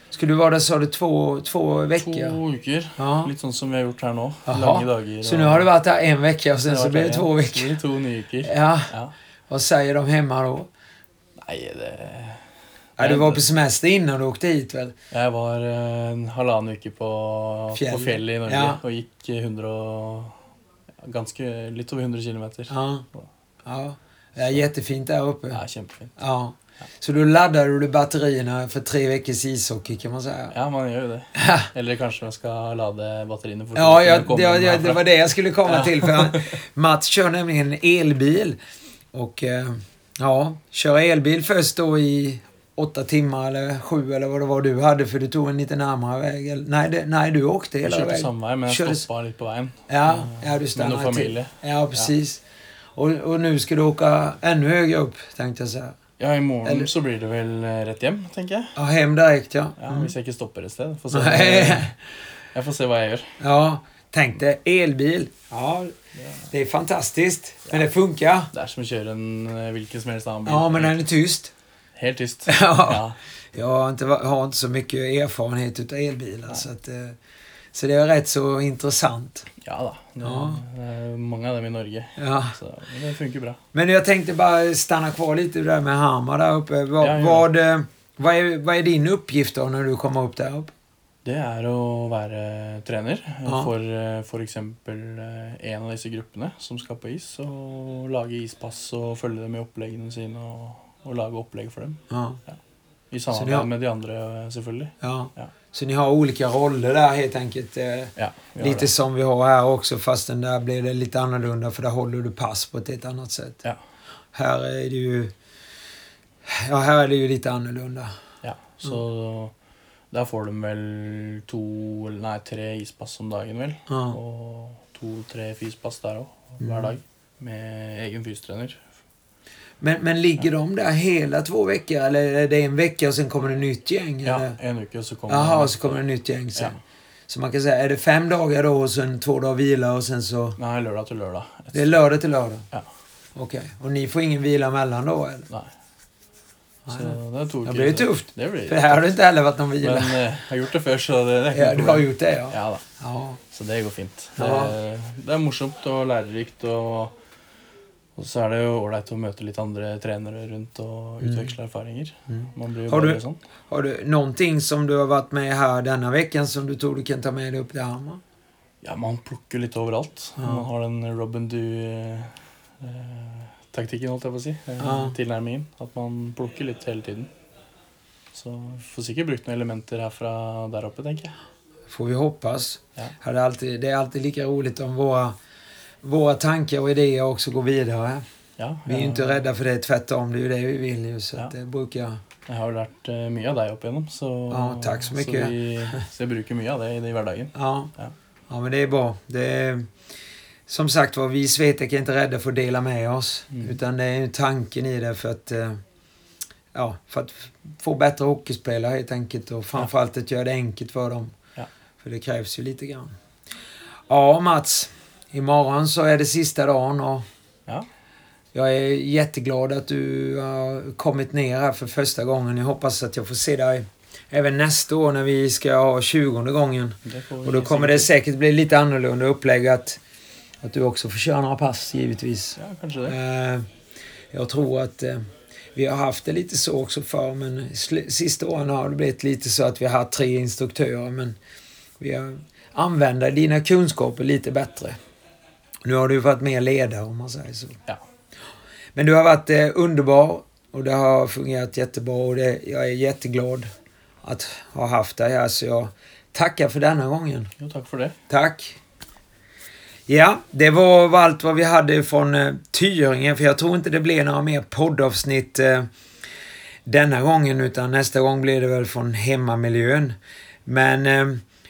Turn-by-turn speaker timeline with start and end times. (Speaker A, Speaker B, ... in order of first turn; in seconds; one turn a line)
Speaker A: 0.1-2.4
Speaker B: 1.9-5.7
Speaker A: 3.0-3.3
Speaker A: 4.5-7.8
Speaker B: 6.6-9.1
Speaker A: 8.4-8.9
Speaker A: 9.5-10.7
Speaker B: 11.4-12.4
Speaker B: 13.0-13.4
Speaker A: 13.0-14.9
Speaker B: 15.1-20.4
Speaker A: 17.7-18.8
Speaker B: 21.0-23.3
Speaker A: 22.7-23.1
Speaker A: 23.6-25.6
Speaker B: 25.5-26.2
Speaker A: 26.2-30.5
Speaker B: 30.5-35.1
Speaker A: 31.4-31.7
Speaker A: 33.8-38.6
Speaker B: 35.6-36.6
Speaker A: 39.1-49.0
Speaker B: 47.8-52.1
Speaker A: 49.9-52.4
Speaker A: 53.0-56.0
Speaker B: 56.2-58.8
Speaker A: 56.6-56.9
Speaker A: 58.8-60.1
Speaker B: 59.8-61.9
Speaker A: 61.1-62.0
Speaker B: 62.5-63.4
Speaker A: 63.4-66.0
Speaker B: 66.2-66.5
Speaker A: 66.5-68.5
Speaker B: 68.5-71.0
Speaker A: 70.5-71.5
Speaker B: 72.0-73.2
Speaker A: 72.5-73.0
Speaker A: 73.5-77.2
Speaker A: 77.7-79.5
Speaker B: 79.6-83.6
Speaker A: 80.2-80.6
Speaker A: 82.2-82.5
Speaker A: 83.7-90.7
Speaker B: 87.0-87.5
Speaker B: 91.2-102.0
Speaker A: 102.1-102.4
Speaker B: 103.1-105.5
Speaker A: 103.3-103.7
Speaker A: 105.0-113.6
Speaker B: 108.2-108.9
Speaker A: 114.3-115.3
Speaker A: 116.5-118.1
Speaker B: 118.4-119.5
Speaker B: 120.1-128.9
Speaker A: 123.9-124.2
Speaker A: 126.6-127.0
Speaker A: 129.8-134.6
Speaker B: 134.2-135.9
Speaker A: 135.3-136.8
Speaker A: 137.3-140.6
Speaker B: 140.6-142.0
Speaker A: 141.7-142.7
Speaker A: 143.3-145.5
Speaker A: 146.9-150.2
Speaker B: 146.9-149.1
Speaker B: 149.8-152.8
Speaker A: 151.5-153.4
Speaker B: 153.5-157.2
Speaker A: 154.4-154.7
Speaker B: 158.2-163.4
Speaker A: 161.2-161.5
Speaker A: 162.3-168.2
Speaker B: 168.8-177.3
Speaker A: 170.4-170.7
Speaker A: 174.8-175.2
Speaker B: 178.3-181.3
Speaker A: 181.9-185.4
Speaker A: 186.0-188.2
Speaker B: 188.6-189.4
Speaker A: 188.9-192.2
Speaker B: 192.5-198.1
Speaker A: 194.5-195.9
Speaker A: 197.5-197.9
Speaker A: 198.5-199.9
Speaker A: 200.7-205.8
Speaker B: 203.5-203.8
Speaker A: 206.7-211.3
Speaker A: 212.0-213.2
Speaker A: 214.1-217.2
Speaker A: 218.5-230.0
Speaker B: 227.1-228.1
Speaker A: 230.6-233.7
Speaker B: 232.6-233.2
Speaker A: 234.3-241.4
Speaker A: 242.0-245.0
Speaker A: 245.8-247.8
Speaker A: 248.9-253.7
Speaker A: 254.2-257.5
Speaker B: 257.6-258.2
Speaker A: 258.3-258.8
Speaker A: 260.1-265.9
Speaker A: 266.9-271.4